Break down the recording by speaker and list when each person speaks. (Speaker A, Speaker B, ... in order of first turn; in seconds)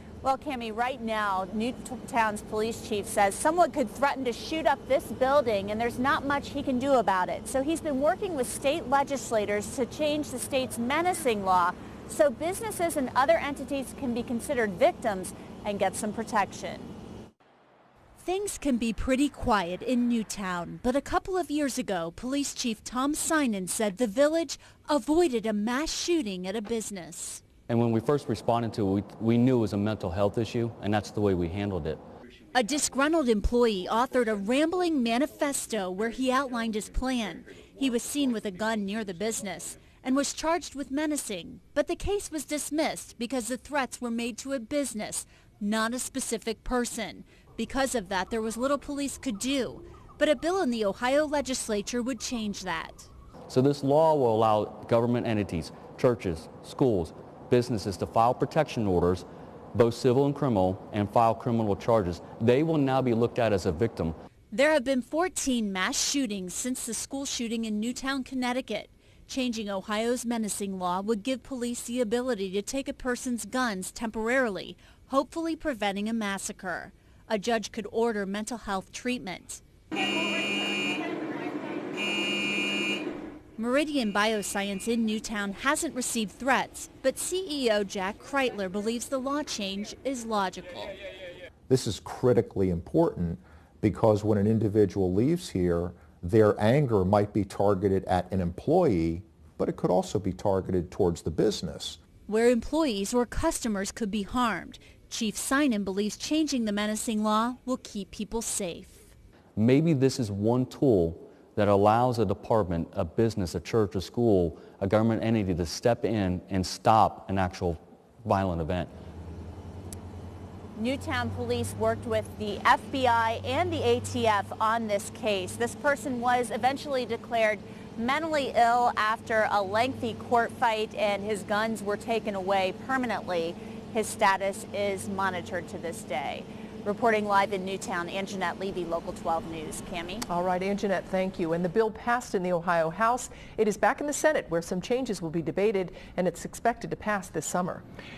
Speaker A: 0.2-16.9, 120.8-140.2
Speaker B: 18.2-27.4, 32.5-53.1, 64.5-79.6, 83.6-91.0, 102.3-109.1
Speaker C: 27.7-32.0, 53.5-64.2, 109.5-118.9
Speaker D: 91.7-102.0
Speaker E: 140.3-147.8